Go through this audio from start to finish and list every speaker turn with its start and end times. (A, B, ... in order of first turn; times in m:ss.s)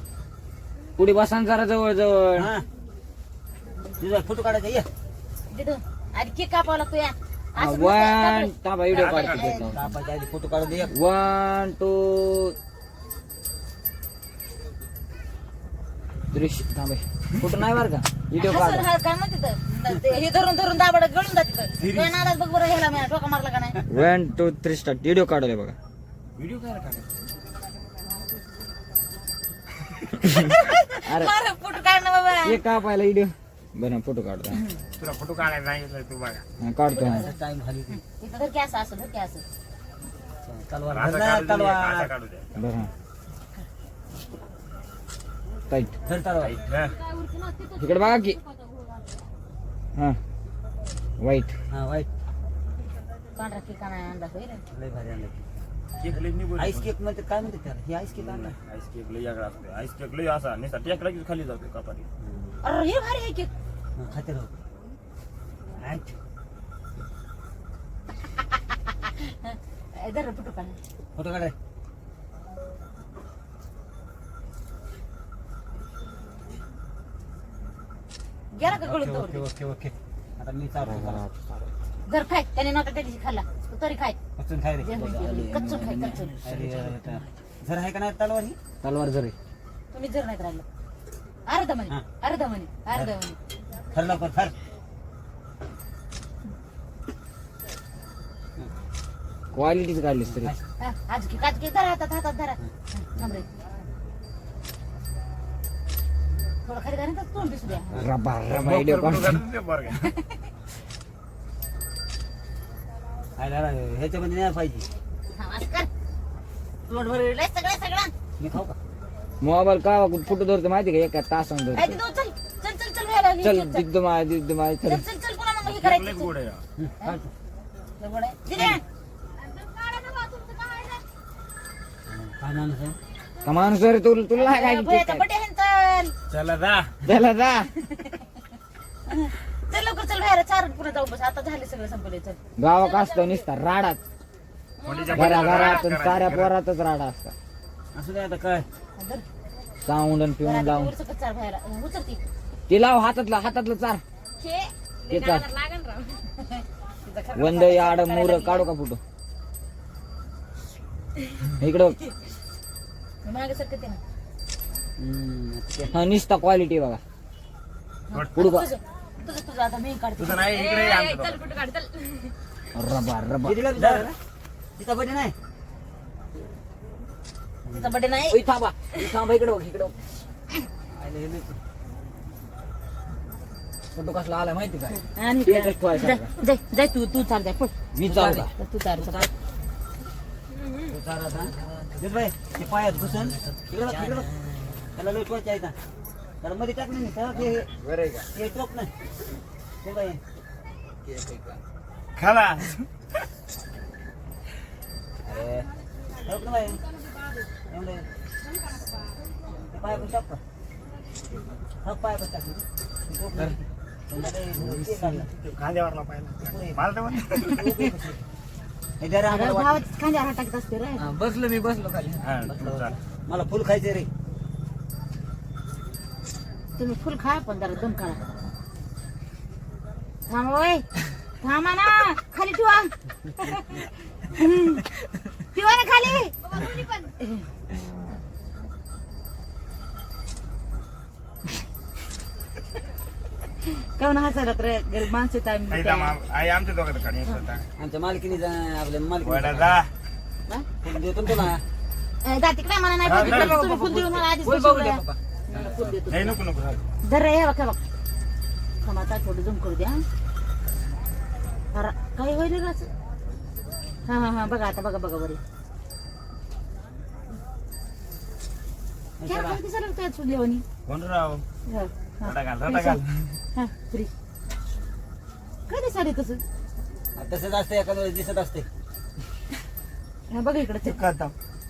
0:01.0-0:02.5 A
0:02.4-0:02.6 B
0:04.0-0:04.9 B
0:05.5-0:09.8 C
0:07.6-0:09.8 A
0:08.9-0:09.6 D
0:09.7-0:10.9 B
0:10.9-0:12.6 A
0:16.3-0:18.9 A
0:18.4-0:23.8 C
0:21.8-0:22.1 D
0:23.9-0:25.8 A
0:26.4-0:27.2 D
0:30.4-0:32.6 C
0:31.0-0:31.3 A
0:32.4-0:34.6 A
0:35.0-0:36.4 D
0:36.6-0:37.2 A
0:36.9-0:37.3 C
0:37.0-0:38.0 B
0:37.9-0:39.4 C
0:40.4-0:42.1 B
0:40.9-0:42.5 D
0:42.5-0:42.9 A
0:46.0-0:46.6 B
0:46.4-0:46.9 D
0:46.8-0:49.3 E
0:47.8-0:48.4 A
0:51.2-0:51.5 A
0:51.7-0:52.1 B
0:53.4-0:54.6 C
0:54.7-0:55.5 B
0:56.0-0:56.9 D
0:56.6-0:58.5 B
0:58.1-1:02.1 D
1:02.6-1:03.5 C
1:04.0-1:04.5 B
1:05.8-1:06.1 B
1:09.2-1:10.8 C
1:11.2-1:11.5 B
1:18.5-1:19.5 C
1:18.6-1:21.2 B
1:20.8-1:21.7 A
1:22.1-1:24.2 C
1:24.4-1:25.4 B
1:24.8-1:26.4 C
1:25.2-1:27.2 A
1:26.4-1:29.2 B
1:28.8-1:29.3 A
1:29.9-1:30.6 C
1:31.5-1:33.4 C
1:33.9-1:34.5 B
1:39.5-1:40.5 A
1:40.2-1:40.6 B
1:40.8-1:43.5 C
1:46.6-1:47.9 C
1:47.9-1:49.4 A
1:48.5-1:50.1 D
1:53.4-1:54.8 B
1:55.3-1:55.9 C
1:56.9-1:58.1 C
1:58.4-1:58.8 B
1:59.4-2:02.0 A
2:01.7-2:03.9 C
2:03.4-2:05.0 A
2:04.8-2:06.3 C
2:05.6-2:06.6 D
2:06.8-2:07.3 B
2:08.0-2:08.8 C
2:09.4-2:11.0 E
2:12.1-2:13.0 B
2:13.4-2:15.2 A
2:14.3-2:16.1 C
2:16.3-2:17.0 D
2:17.0-2:17.7 A
2:17.9-2:18.2 C
2:19.1-2:23.4 C
2:22.6-2:24.0 A
2:24.8-2:25.8 E
2:24.8-2:26.6 D
2:25.1-2:27.3 A
2:27.9-2:28.6 B
2:29.0-2:29.2 C
2:29.8-2:30.9 A
2:30.4-2:32.2 C
2:32.7-2:34.0 A
2:34.4-2:36.2 E
2:35.1-2:35.5 A
2:36.4-2:38.7 C
2:37.3-2:39.0 A
2:41.6-2:42.0 A
2:43.2-2:44.0 C
2:45.0-2:46.0 B
2:45.9-2:47.0 A
2:48.1-2:50.5 C
2:48.1-2:48.4 D
2:48.3-2:48.7 A
2:50.2-2:51.5 D
2:50.5-2:52.3 E
2:52.7-2:54.1 A
2:53.4-2:54.1 B
2:54.8-2:55.3 B
2:57.7-2:58.4 C
2:58.3-2:59.9 A
3:00.9-3:01.6 B
3:03.9-3:06.3 A
3:05.1-3:09.3 C
3:08.0-3:09.3 A
3:08.0-3:08.4 B
3:10.5-3:11.0 E
3:10.9-3:14.3 B
3:11.4-3:12.0 A
3:13.1-3:14.9 A
3:14.9-3:15.7 B
3:16.4-3:17.7 B
3:17.4-3:18.3 A
3:18.3-3:18.9 B
3:19.8-3:20.2 B
3:21.0-3:21.6 A
3:22.2-3:22.9 D
3:25.3-3:25.6 A
3:26.2-3:26.8 B
3:27.7-3:28.0 B
3:28.5-3:29.1 E
3:29.7-3:30.4 B
3:31.8-3:33.6 B
3:34.1-3:35.3 B
3:34.6-3:35.2 A
3:35.2-3:37.7 D
3:36.4-3:36.8 B
3:37.5-3:38.2 B
3:39.0-3:39.8 B
3:39.2-3:41.1 C
3:41.0-3:42.7 A
3:42.2-3:43.0 D
3:42.6-3:44.1 B
3:46.8-3:48.2 C
3:50.3-3:50.8 C
3:51.4-3:54.9 C
3:55.5-3:56.3 C
3:56.4-3:57.1 E
3:57.2-3:57.4 C
4:03.6-4:06.2 C
4:05.7-4:07.7 D
4:07.8-4:09.8 B
4:09.2-4:09.9 D
4:10.8-4:11.6 B
4:12.2-4:16.4 C
4:13.0-4:13.6 D
4:13.2-4:15.9 A
4:16.1-4:16.8 D
4:17.0-4:17.8 C
4:18.8-4:20.0 C
4:21.7-4:22.9 C
4:24.0-4:25.4 C
4:29.2-4:29.6 B
4:29.2-4:30.6 C
4:30.8-4:31.4 D
4:31.7-4:33.0 C
4:32.2-4:33.4 D
4:33.5-4:34.1 C
4:35.7-4:36.4 C
4:37.2-4:38.7 B
4:40.3-4:41.0 C
4:40.8-4:41.3 D